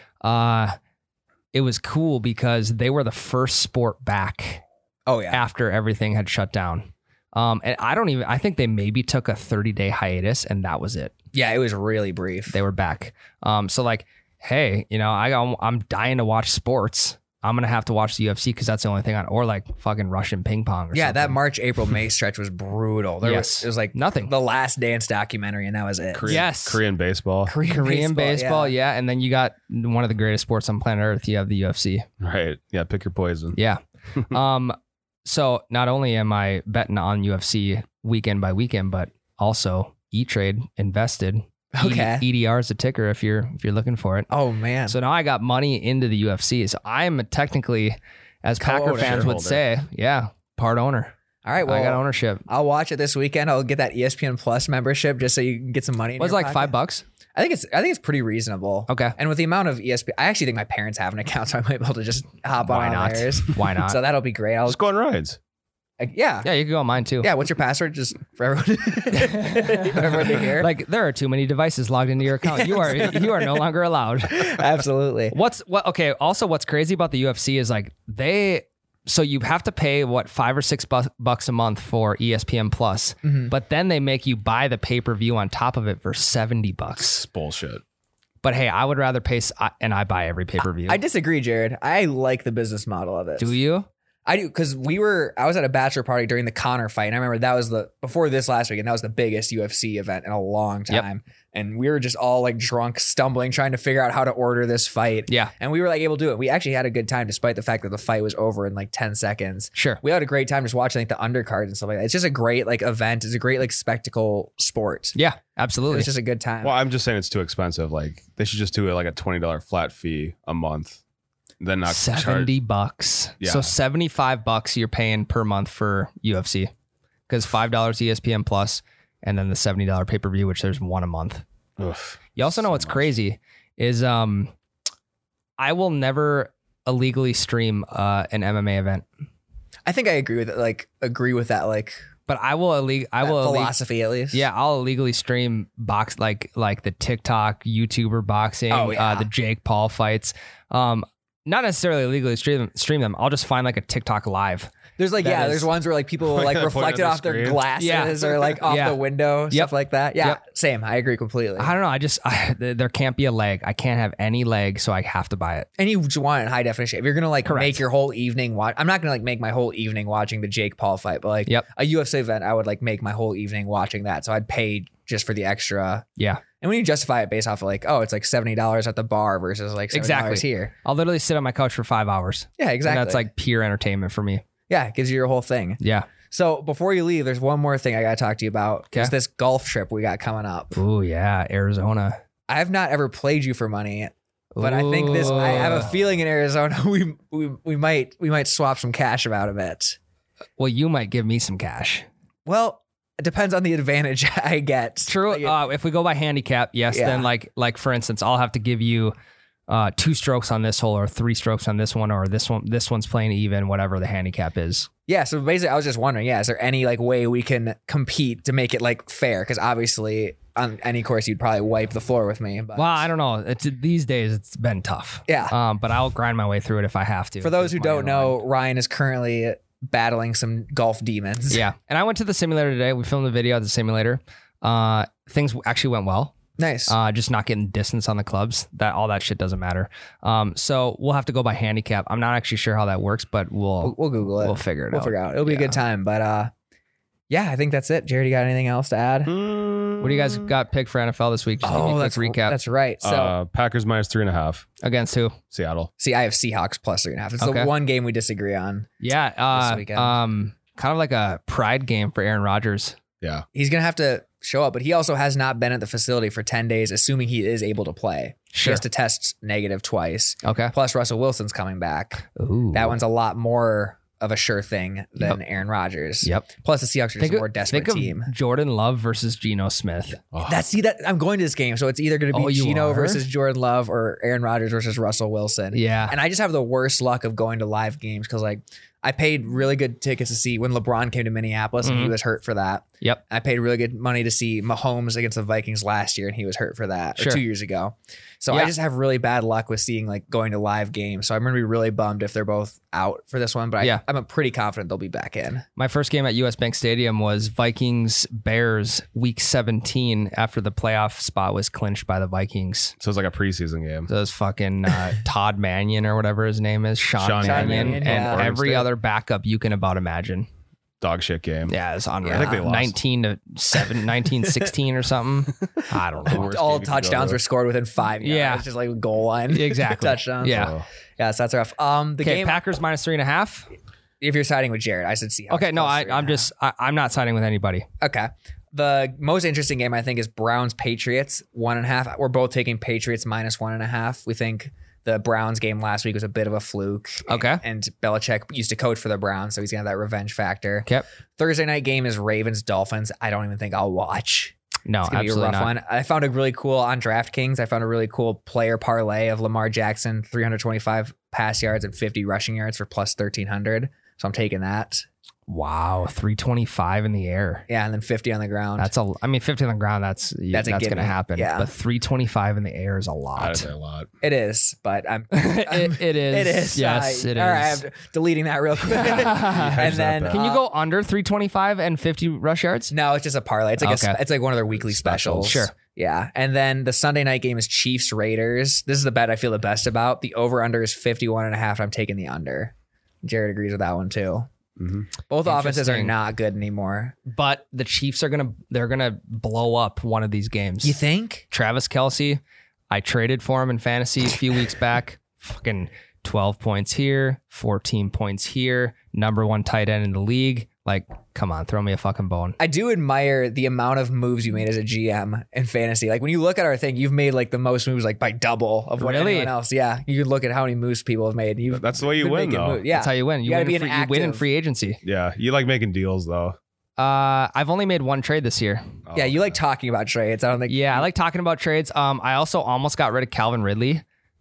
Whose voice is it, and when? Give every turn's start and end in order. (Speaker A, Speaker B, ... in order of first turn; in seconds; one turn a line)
Speaker A: 0.2-0.8
Speaker A: 1.5-4.6
Speaker B: 5.1-5.4
Speaker A: 5.3-11.1
Speaker B: 11.3-12.6
Speaker A: 12.5-21.4
Speaker B: 20.9-26.4
Speaker A: 23.2-24.3
Speaker C: 26.1-27.5
Speaker A: 26.2-26.8
Speaker B: 27.5-28.7
Speaker A: 27.6-32.0
Speaker C: 32.2-33.5
Speaker A: 33.5-44.3
Speaker B: 41.7-42.2
Speaker B: 44.3-44.9
Speaker A: 44.9-51.1
Speaker B: 48.6-49.3
Speaker C: 48.9-49.6
Speaker B: 51.4-56.7
Speaker A: 51.6-52.4
Speaker A: 56.2-57.0
Speaker B: 57.3-64.8
Speaker A: 58.9-59.1
Speaker A: 62.6-64.0
Speaker C: 64.7-65.4
Speaker B: 66.0-66.5
Speaker A: 66.4-67.3
Speaker B: 67.2-70.7
Speaker A: 69.2-74.7
Speaker B: 72.4-73.6
Speaker B: 74.3-75.3
Speaker A: 75.3-87.2
Speaker B: 83.2-83.5
Speaker C: 87.0-87.8
Speaker A: 88.4-91.0
Speaker B: 90.6-93.5
Speaker A: 93.4-93.9
Speaker B: 94.2-115.2
Speaker A: 109.8-110.0
Speaker A: 115.2-116.1
Speaker B: 115.9-116.7
Speaker C: 116.6-121.0
Speaker C: 121.6-122.5
Speaker A: 121.9-126.7
Speaker C: 123.4-123.7
Speaker A: 127.3-131.4
Speaker C: 131.8-133.1
Speaker A: 132.3-134.5
Speaker A: 135.6-139.0
Speaker B: 139.8-142.0
Speaker A: 142.3-143.7
Speaker B: 143.2-144.4
Speaker A: 144.3-155.7
Speaker B: 148.7-149.3
Speaker B: 155.0-161.7
Speaker C: 156.2-157.6
Speaker A: 157.8-160.4
Speaker A: 161.6-165.7
Speaker B: 165.8-176.1
Speaker A: 167.4-167.8
Speaker A: 176.2-176.4
Speaker B: 176.6-180.7
Speaker A: 179.9-184.4
Speaker B: 182.6-183.2
Speaker B: 184.7-190.8
Speaker A: 185.8-186.1
Speaker A: 190.7-192.2
Speaker B: 192.5-200.0
Speaker A: 194.5-195.9
Speaker A: 200.6-202.1
Speaker B: 202.4-205.5
Speaker A: 205.1-209.1
Speaker B: 206.9-207.3
Speaker A: 209.7-214.9
Speaker B: 215.1-223.0
Speaker A: 222.7-228.4
Speaker B: 225.3-225.5
Speaker B: 227.4-231.6
Speaker A: 231.5-236.3
Speaker B: 236.6-236.9
Speaker A: 236.9-245.8
Speaker B: 243.8-246.5
Speaker B: 247.3-249.3
Speaker C: 249.2-250.5
Speaker A: 250.0-252.6
Speaker B: 251.6-253.4
Speaker C: 253.0-254.7
Speaker A: 254.8-255.4
Speaker C: 255.5-255.9
Speaker B: 256.0-258.9
Speaker A: 257.4-257.7
Speaker A: 259.0-263.0
Speaker B: 259.5-260.1
Speaker B: 263.5-278.3
Speaker A: 268.5-268.8
Speaker A: 270.4-270.7
Speaker A: 272.3-273.0
Speaker A: 277.2-280.2
Speaker C: 280.3-280.6
Speaker B: 280.4-305.6
Speaker A: 282.3-283.2
Speaker A: 285.7-286.1
Speaker A: 291.8-292.1
Speaker A: 297.2-297.4
Speaker A: 305.8-312.9
Speaker C: 313.0-314.1
Speaker A: 314.1-320.5
Speaker C: 317.2-318.8
Speaker B: 317.4-318.8
Speaker C: 321.0-323.0
Speaker A: 321.7-326.5
Speaker B: 322.2-322.5
Speaker C: 326.2-327.4
Speaker B: 326.3-332.6
Speaker A: 328.2-328.6
Speaker A: 329.5-330.7
Speaker C: 330.4-330.9
Speaker A: 332.2-333.7
Speaker B: 334.2-336.5
Speaker A: 335.5-337.9
Speaker B: 338.0-365.1
Speaker A: 347.3-347.6
Speaker A: 354.9-355.7
Speaker A: 365.5-367.7
Speaker B: 367.7-368.9
Speaker A: 368.8-373.7
Speaker B: 370.5-371.7
Speaker C: 373.4-374.1
Speaker B: 374.2-380.6
Speaker A: 375.3-377.8
Speaker A: 378.9-382.9
Speaker C: 379.4-380.4
Speaker B: 382.9-394.5
Speaker A: 383.8-384.2
Speaker C: 384.7-385.6
Speaker A: 385.4-385.7
Speaker C: 394.8-395.1
Speaker B: 395.3-397.2
Speaker A: 395.4-396.1
Speaker A: 397.3-401.0
Speaker B: 400.8-401.4
Speaker A: 401.5-412.6
Speaker B: 412.6-424.4
Speaker A: 419.0-419.5
Speaker C: 421.7-422.8
Speaker A: 422.9-425.0
Speaker C: 425.0-426.6
Speaker A: 427.0-428.9
Speaker C: 429.1-429.6
Speaker B: 429.1-431.1
Speaker A: 430.7-434.0